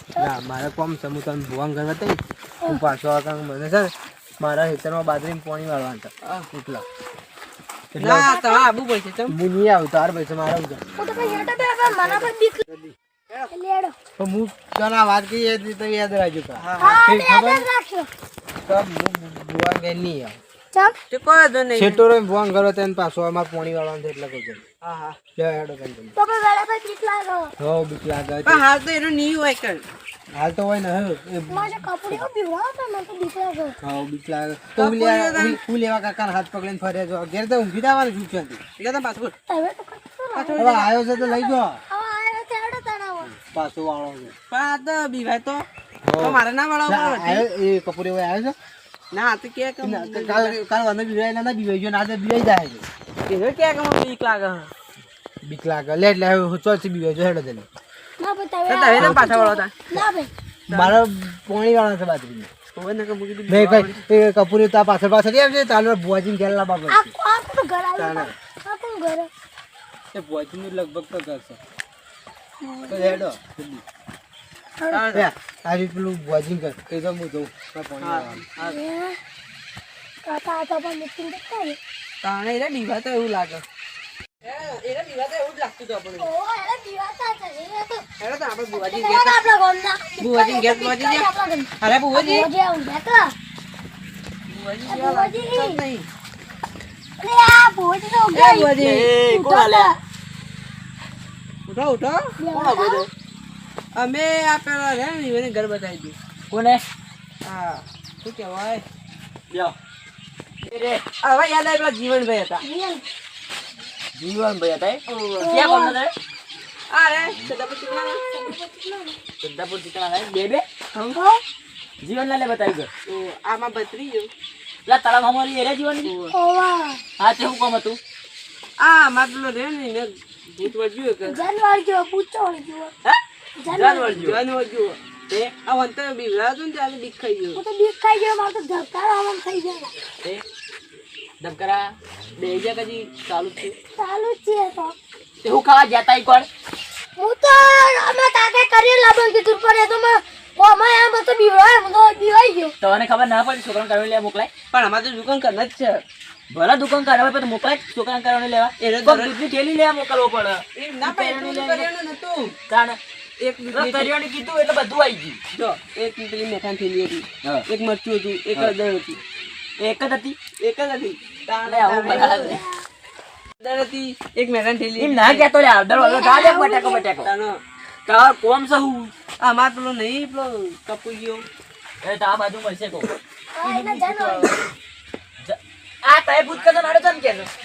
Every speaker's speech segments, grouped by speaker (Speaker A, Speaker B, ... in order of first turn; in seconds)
Speaker A: 0.2-6.8, 7.9-8.3, 9.3-10.8, 11.8-12.9, 14.2-17.7, 18.6-20.4, 21.8-24.6, 25.3-26.1, 27.6-28.6, 30.3-32.2, 33.8-38.6, 40.5-41.8, 43.3-44.3, 46.0-48.6, 49.8-52.9, 55.4-57.7, 60.7-62.5, 63.5-67.1, 68.0-68.3, 70.1-71.6, 72.9-73.8, 75.1-78.4
Speaker B: 8.0-9.3, 16.6-17.0, 21.1-22.0, 24.8-25.2, 28.4-29.8, 34.8-35.6, 38.8-39.3, 40.3-40.9, 44.5-45.7, 46.2-47.4, 49.1-50.6, 53.2-54.7, 58.7-59.7, 60.7-61.0, 62.7-64.0, 74.9-75.3, 78.0-78.8, 82.2-83.6, 84.4-86.3, 88.2-89.4, 90.2-91.3, 91.8-92.5, 94.5-96.1, 98.3-99.1, 101.7-103.1, 103.9-106.2, 107.4-108.8, 111.2-112.6, 115.1-115.5, 116.9-118.2, 120.9-121.2, 123.1-124.3, 126.0-126.3, 128.8-131.4, 133.7-137.6, 154.7-156.0, 158.8-159.4, 160.8-162.6, 163.4-164.1, 165.5-169.2, 170.6-172.6, 173.6-175.5, 177.2-177.6, 179.4-181.5, 183.7-184.6
Speaker C: 8.2-8.7, 11.0-12.6, 13.5-13.9, 16.8-18.1, 26.1-27.5, 31.5-33.8, 39.5-43.3, 58.2-60.3, 66.9-69.3, 78.6-79.2, 80.2-81.8, 86.2-88.0, 88.7-93.3, 94.9-95.8, 97.2-100.0, 102.4-103.0, 112.6-113.0, 115.4-116.0, 117.9-119.2, 121.1-121.4, 126.3-127.0, 131.2-132.9, 133.6-134.1, 137.6-139.9, 144.0-145.0, 147.2-152.8, 172.1-172.8, 175.9-177.1, 183.6-184.5
Speaker D: 98.8-99.9, 106.5-106.8, 109.5-109.7, 110.6-111.0, 114.2-116.1, 119.4-120.6, 122.0-122.9, 124.9-126.1, 127.2-128.0, 133.9-134.4, 141.4-143.8, 145.4-146.5, 152.8-154.5, 156.5-161.9, 162.7-163.0, 163.7-165.4, 169.8-170.4, 171.6-172.6, 175.0-177.3, 178.1-179.1, 182.0-183.1, 185.4-187.5